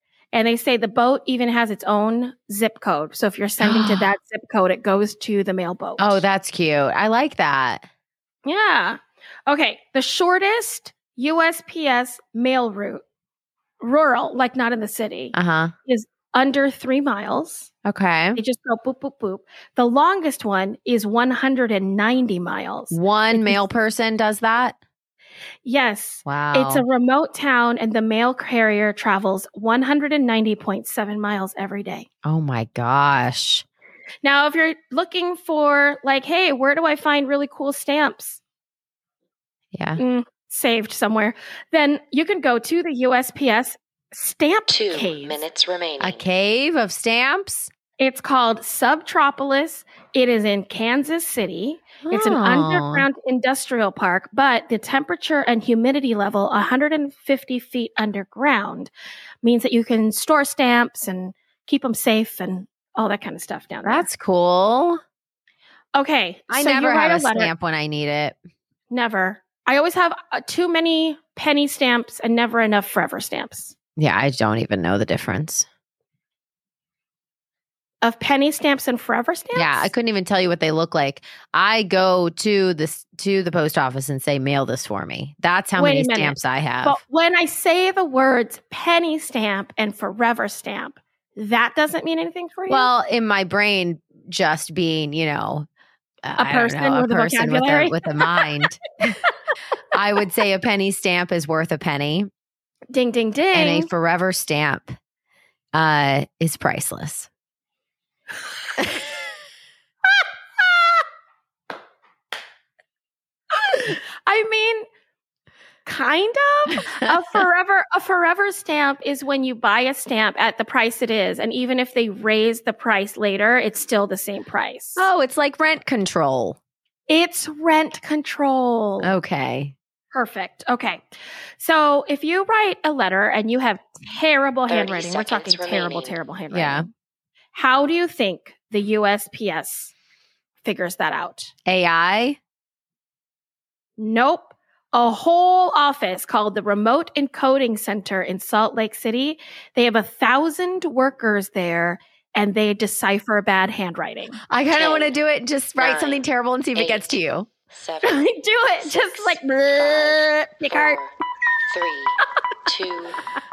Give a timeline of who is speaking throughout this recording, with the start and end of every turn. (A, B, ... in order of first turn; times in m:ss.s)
0:00.3-0:06.2 A
0:03.6-0:04.1 B
0:06.0-0:07.8 B
0:08.4-0:13.0 A
0:13.8-0:17.7 A
0:15.3-0:15.7 B
0:17.8-0:18.4 B
0:18.4-0:23.6 A
0:22.9-0:24.8 B
0:25.6-0:32.1 A
0:26.2-0:26.8 B
0:32.2-0:33.6 B
0:34.2-0:38.4 A
0:39.7-0:40.0 B
0:40.0-0:45.4 A
0:44.7-0:46.2 C
0:46.0-0:47.7 B
0:48.0-0:58.9 A
0:52.0-0:53.1 B
0:59.4-1:04.1 A
1:03.8-1:05.0 B
1:05.9-1:07.5 A
1:06.5-1:08.4 B
1:08.9-1:13.7 A
1:14.0-1:15.7 B
1:18.0-1:19.9 A
1:19.5-1:27.0 B
1:25.7-1:32.9 A
1:32.7-1:35.7 B
1:36.2-1:39.2 B
1:36.4-1:38.6 A
1:39.9-1:42.3 B
1:42.9-1:43.9 A
1:43.5-1:44.9 B
1:45.7-1:47.3 B
1:50.2-1:51.0 A
1:53.5-1:54.8 A
1:55.8-2:05.1 A
2:05.0-2:06.6 B
2:07.1-2:09.2 A
2:09.0-2:09.7 B
2:10.1-2:11.0 A
2:11.6-2:16.9 A
2:14.7-2:16.2 C
2:16.5-2:16.9 B
2:17.5-2:19.9 A
2:20.6-2:21.5 A
2:21.6-2:22.4 B
2:24.0-2:34.5 A
2:34.5-2:37.5 B
2:34.7-2:35.2 C
2:35.8-2:36.2 C
2:36.7-2:38.3 C
2:38.0-2:41.0 A
2:38.8-2:41.1 C
2:41.7-2:43.2 C